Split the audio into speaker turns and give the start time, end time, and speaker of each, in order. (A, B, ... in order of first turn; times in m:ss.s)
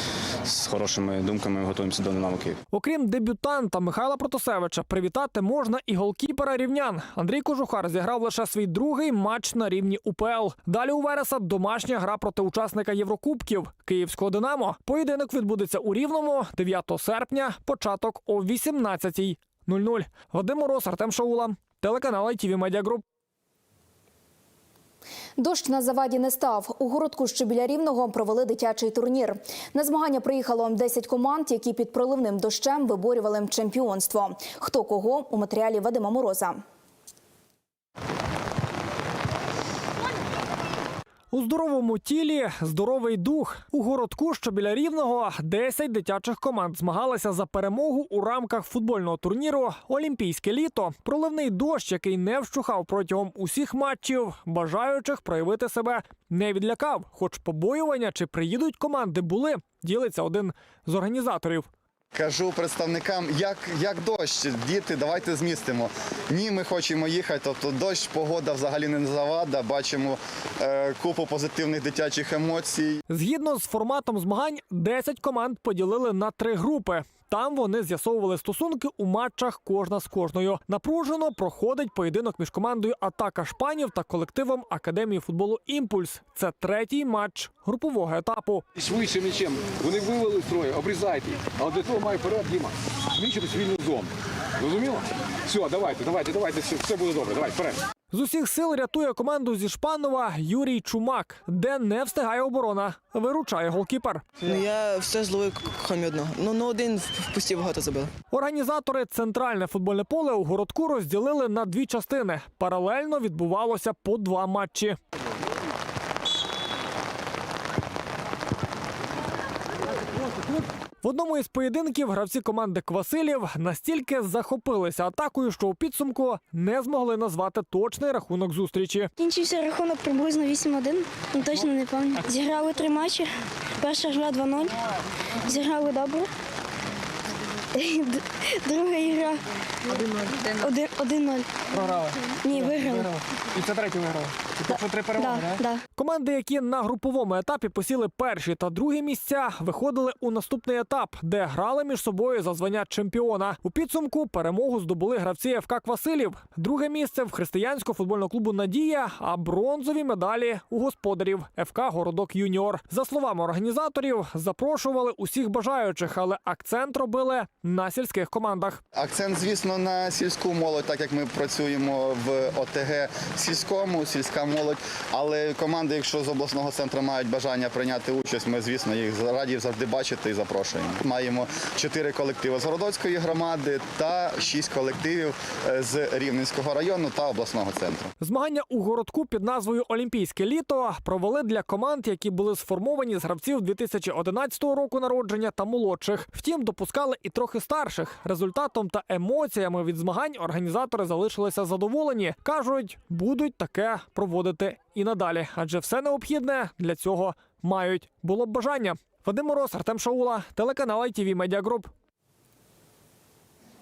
0:00.4-0:02.6 A
0:02.7-0:23.0 B
0:25.4-0:36.6 C
0:41.3-1:01.7 B
1:02.1-1:13.0 D
1:13.1-1:28.6 B
1:28.8-1:32.7 E
1:33.2-1:34.0 E
1:34.6-1:35.0 E
1:35.5-1:37.7 E
1:38.1-1:44.2 B
1:44.4-1:48.1 F
1:48.3-1:55.0 B
2:01.0-2:09.1 B
2:09.2-2:14.7 G
2:15.4-2:16.3 G
2:17.7-2:19.4 G
2:20.6-2:21.5 G
2:22.3-2:23.2 G
2:24.7-2:25.8 G
2:26.0-2:48.8 B
2:49.0-3:08.1 D
3:08.2-3:31.9 B